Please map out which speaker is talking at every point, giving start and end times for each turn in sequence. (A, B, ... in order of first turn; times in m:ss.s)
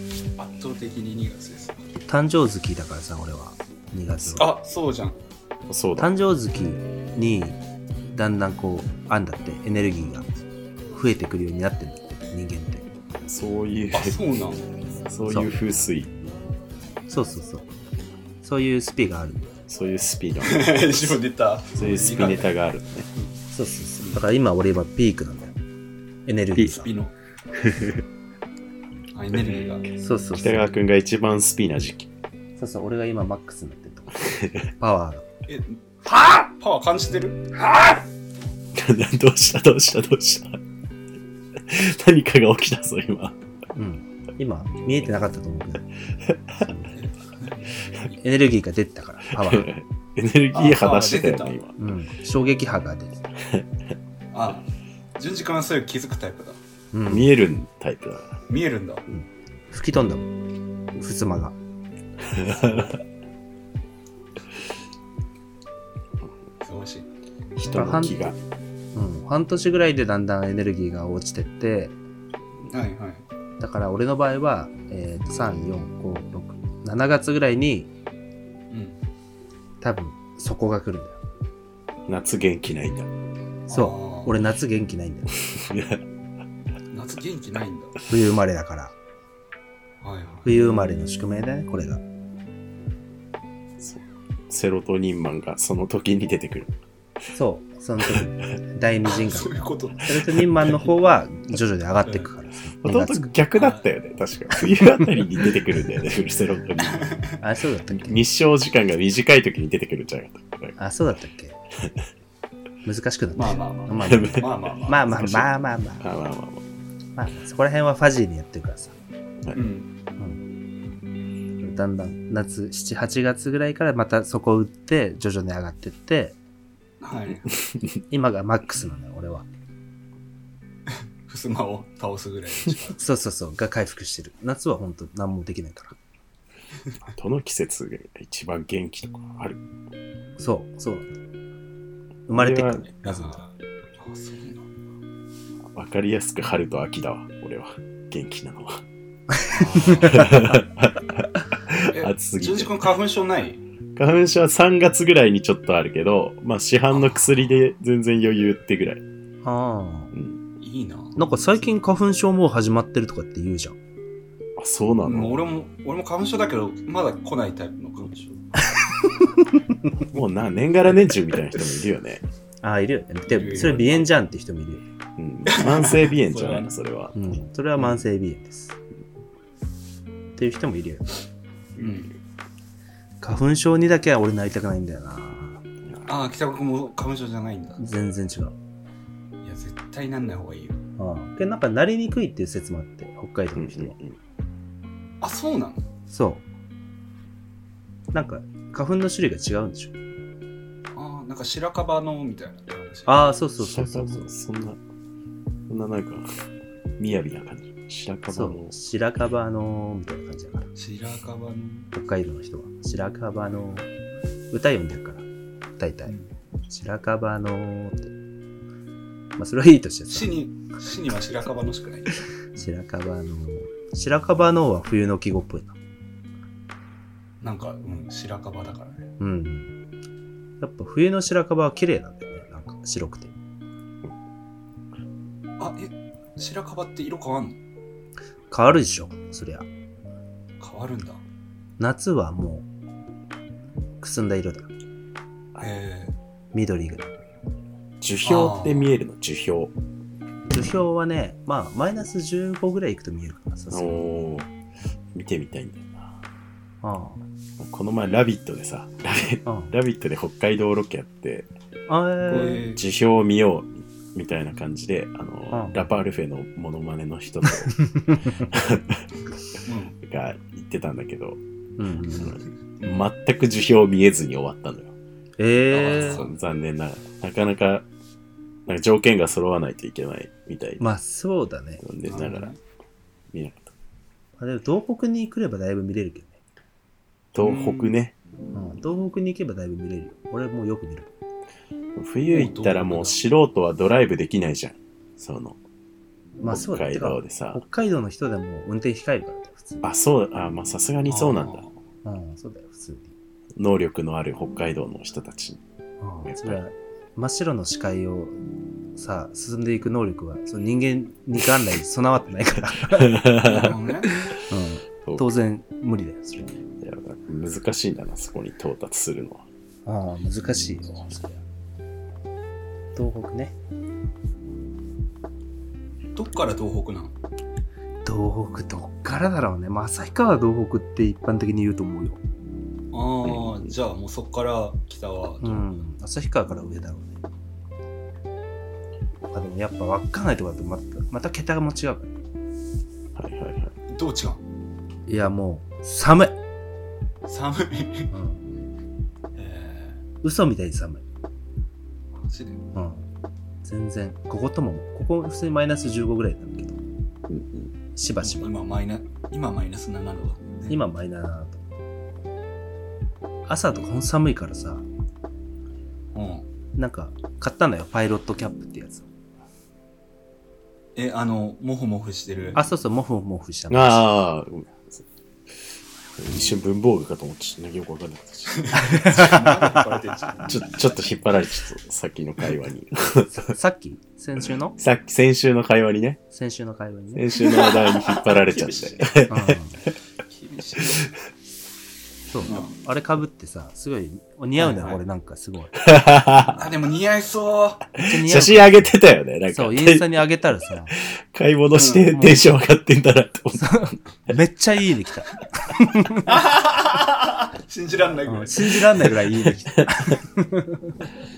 0:00.4-0:01.8 A
0:02.1-0:04.5 B
0:04.4-0:05.2 A
0:05.7-0:06.1 C
0:06.0-0:10.3 B
0:10.9-0:12.9 B
0:13.3-0:14.2 C
0:13.9-0:14.6 A
0:15.1-0:16.1 C
0:15.3-0:15.6 B
0:17.1-0:17.7 B
0:18.4-0:19.5 B
0:19.7-0:21.2 C
0:20.4-0:22.5 A
0:21.7-0:23.1 C
0:23.5-0:25.6 B
0:26.2-0:26.9 B
0:26.6-0:27.1 A
0:27.5-0:28.0 C
0:29.1-0:29.8 A
0:30.0-0:30.7 B
0:30.4-0:32.1 C
0:32.6-0:35.2 B
0:34.2-0:34.7 C
0:35.5-0:37.4 A
0:37.5-0:38.0 B
0:38.7-0:40.6 C
0:41.6-0:43.4 C
0:43.7-0:45.9 B
0:46.3-0:46.6 C
0:46.6-0:46.9 B
0:46.9-0:48.2 A
0:48.2-0:49.7 B
0:49.3-0:51.7 C
0:50.5-0:51.6 A
0:51.8-0:53.3 B
0:54.3-0:54.6 A
0:55.2-0:56.6 A
0:56.9-0:57.3 B
0:57.1-0:58.4 C
0:58.5-0:59.0 A
0:59.1-1:00.3 B
1:01.0-1:01.6 B
1:02.2-1:03.0 C
1:06.6-1:07.1 A
1:07.6-1:08.4 C
1:07.7-1:08.3 B
1:08.9-1:12.0 B
1:12.7-1:13.2 A
1:13.6-1:17.9 B
1:18.7-1:19.0 A
1:19.8-1:21.2 B
1:22.1-1:23.1 C
1:23.7-1:25.4 B
1:23.7-1:24.4 A
1:25.4-1:26.0 C
1:26.9-1:27.9 A
1:28.1-1:28.9 B
1:30.0-1:30.5 A
1:30.4-1:32.0 B
1:33.8-1:36.7 C
1:37.3-1:43.3 B
1:39.1-1:40.9 A
1:42.0-1:42.3 A
1:42.8-1:47.1 C
1:43.5-1:43.8 A
1:46.8-1:47.4 A
1:47.4-1:48.2 B
1:47.9-1:50.8 C
1:50.8-1:51.6 B
1:52.8-1:56.0 B
1:53.4-1:55.1 A
1:54.0-1:54.5 C
1:55.0-1:55.5 C
1:56.0-1:56.6 C
1:57.2-1:59.0 B
1:59.5-1:59.9 A
2:00.2-2:00.4 B
2:01.6-2:06.4 B
2:07.0-2:07.5 A
2:08.1-2:09.5 B
2:11.3-2:13.0 A
2:13.0-2:16.0 B
2:17.1-2:19.6 C
2:20.4-2:21.1 B
2:22.3-2:23.4 B
2:22.3-2:22.9 C
2:23.0-2:24.7 A
2:25.7-2:28.8 C
2:29.3-2:30.5 B
2:29.5-2:30.2 A
2:29.8-2:32.9 C
2:31.9-2:33.6 A
2:34.0-2:39.0 C
2:36.9-2:37.4 A
2:39.4-2:40.1 B
2:40.1-2:40.4 C
2:40.6-2:41.2 A
2:41.2-2:43.8 B
2:44.6-2:45.4 C
2:45.0-2:48.5 A
2:50.0-2:52.2 C
2:52.6-2:54.8 B
2:53.3-2:54.1 A
2:55.2-2:57.9 C
2:55.5-2:56.7 A
2:57.1-2:58.8 B
3:00.4-3:01.0 B
3:01.8-3:02.1 A
3:03.2-3:05.6 B
3:06.0-3:07.8 A
3:07.8-3:08.5 B
3:09.4-3:10.8 A
3:11.0-3:13.9 B
3:13.6-3:14.2 C
3:15.2-3:15.9 A
3:16.1-3:16.4 B
3:18.1-3:19.9 B
3:20.9-3:23.3 A
3:23.1-3:24.3 B
3:23.6-3:24.8 C
3:25.7-3:26.3 C
3:27.0-3:28.7 C
3:28.3-3:30.7 B
3:30.7-3:31.9 A
3:31.9-3:33.9 B
3:34.5-3:35.2 B
3:35.8-3:36.1 B
3:36.0-3:36.3 A
3:36.7-3:38.1 B
3:39.4-3:40.4 B
3:40.1-3:42.2 A
3:42.5-3:45.8 B
3:47.4-3:49.1 A
3:49.2-3:49.7 B
3:50.6-3:53.3 B
3:55.6-3:57.6 A
3:58.5-3:59.6 B
4:00.6-4:01.2 A
4:01.8-4:02.7 B
4:04.0-4:04.7 B
4:05.6-4:06.1 A
4:06.5-4:07.1 B
4:08.0-4:09.7 C
4:08.2-4:08.9 A
4:10.5-4:14.0 B
4:13.7-4:14.5 C
4:15.1-4:16.1 C
4:16.8-4:17.2 B
4:17.6-4:21.5 C
4:19.4-4:19.7 B
4:21.9-4:22.6 B
4:22.3-4:27.8 C
4:22.3-4:22.8 A
4:25.5-4:25.8 B
4:27.5-4:28.5 B
4:28.4-4:29.0 C
4:29.6-4:30.0 A
4:30.0-4:31.4 C
4:31.8-4:32.3 B
4:32.0-4:34.9 C
4:32.8-4:33.0 A
4:35.4-4:36.2 B
4:35.7-4:36.3 A
4:36.0-4:37.8 C
4:38.7-4:40.8 C
4:40.8-4:41.8 B
4:41.8-4:42.5 C
4:42.0-4:42.6 A
4:43.3-4:43.7 C
4:44.4-4:46.3 B
4:47.3-4:48.1 C
4:47.4-4:47.9 A
4:48.5-4:51.1 B
4:52.0-4:55.6 C
4:52.3-4:53.2 A
4:56.4-4:59.9 B
4:56.5-4:57.6 C
4:59.8-5:01.6 C
5:01.1-5:01.7 A
5:02.0-5:03.1 B
5:03.6-5:05.6 C
5:06.0-5:08.4 B
5:06.2-5:06.6 C
5:08.9-5:13.2 B
5:12.9-5:13.7 C
5:13.4-5:14.3 A
5:14.5-5:16.6 B
5:16.8-5:19.4 C
5:19.8-5:21.4 B
5:22.9-5:23.5 B
5:26.1-5:27.1 A
5:28.0-5:32.2 B
5:32.9-5:35.8 A
5:35.4-5:37.2 B
5:39.3-5:42.2 B
5:43.1-5:43.7 C
5:43.9-5:44.4 A
5:45.1-5:46.4 B
5:47.2-5:48.1 A
5:48.1-5:48.4 B
5:49.3-5:50.0 A
5:50.2-5:51.0 B
5:52.2-5:52.6 A
5:52.7-5:53.0 B
5:53.6-5:56.8 B
5:57.3-5:57.7 C
5:58.0-5:58.5 B
5:58.2-6:00.8 A
6:00.7-6:01.6 B
6:03.5-6:04.8 B
6:06.1-6:06.4 A
6:06.7-6:09.1 B
6:11.0-6:12.6 A
6:12.6-6:14.1 B
6:13.7-6:15.0 C
6:16.2-6:18.6 C
6:18.5-6:21.0 A
6:18.7-6:19.4 B
6:20.5-6:23.4 C
6:23.3-6:24.8 B
6:24.8-6:26.2 C
6:26.3-6:27.2 B
6:27.1-6:29.6 C
6:27.4-6:29.3 A
6:29.3-6:29.8 B
6:30.3-6:31.1 A
6:32.3-6:35.7 B
6:32.4-6:32.7 A
6:34.6-6:35.0 A
6:35.8-6:36.6 C
6:36.6-6:37.9 A
6:38.0-6:38.9 B
6:38.0-6:40.1 C
6:39.5-6:40.9 B
6:40.9-6:43.9 C
6:41.7-6:42.1 A
6:42.1-6:42.5 B
6:43.6-6:46.4 B
6:46.3-6:49.1 A
6:48.3-6:50.9 B